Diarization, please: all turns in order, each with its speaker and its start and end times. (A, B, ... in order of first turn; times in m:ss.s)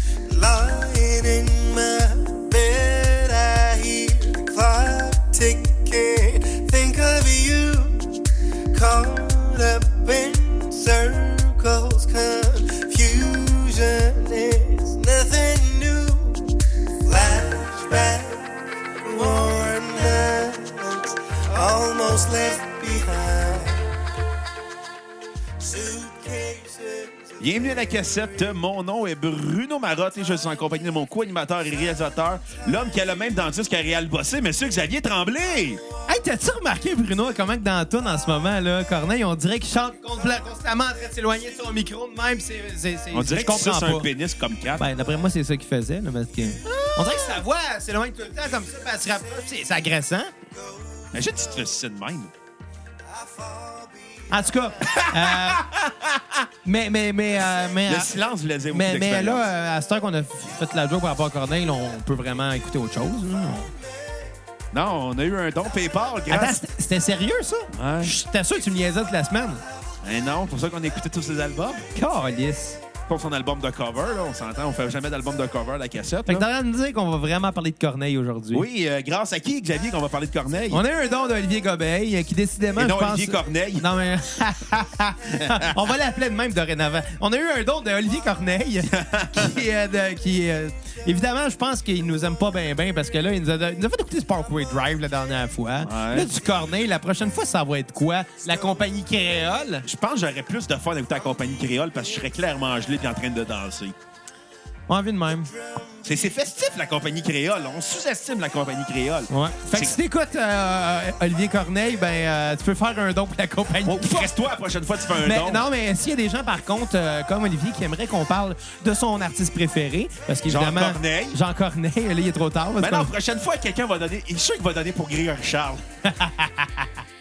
0:00.3-0:08.2 A
0:08.7-0:23.9 A
0:25.6-0:27.3 A
0:27.4-0:35.8 B
0:36.1-0:44.1 C
0:43.1-0:44.8 B
0:44.8-0:50.3 C
0:46.6-0:47.4 B
0:51.1-0:52.3 B
0:53.2-0:54.2 A
0:54.3-0:55.7 C
0:54.8-0:56.5 B
0:56.6-0:58.1 C
0:57.8-0:59.4 B
0:58.7-1:03.7 C
1:04.7-1:06.6 B
1:06.3-1:09.6 C
1:07.7-1:08.1 B
1:10.0-1:11.9 B
1:12.0-1:12.8 C
1:13.1-1:16.5 B
1:16.3-1:18.7 C
1:18.5-1:20.8 B
1:20.7-1:39.9 C
1:22.8-1:23.9 B
1:25.3-1:25.9 B
1:28.9-1:29.6 B
1:35.8-1:36.3 B
1:39.9-1:44.0 B
1:44.9-1:45.5 C
1:46.0-1:50.0 B
1:49.3-1:54.3 C
1:53.8-1:55.7 B
1:55.2-2:03.1 C
2:00.5-2:01.4 B
2:02.8-2:05.8 B
2:06.0-2:06.9 C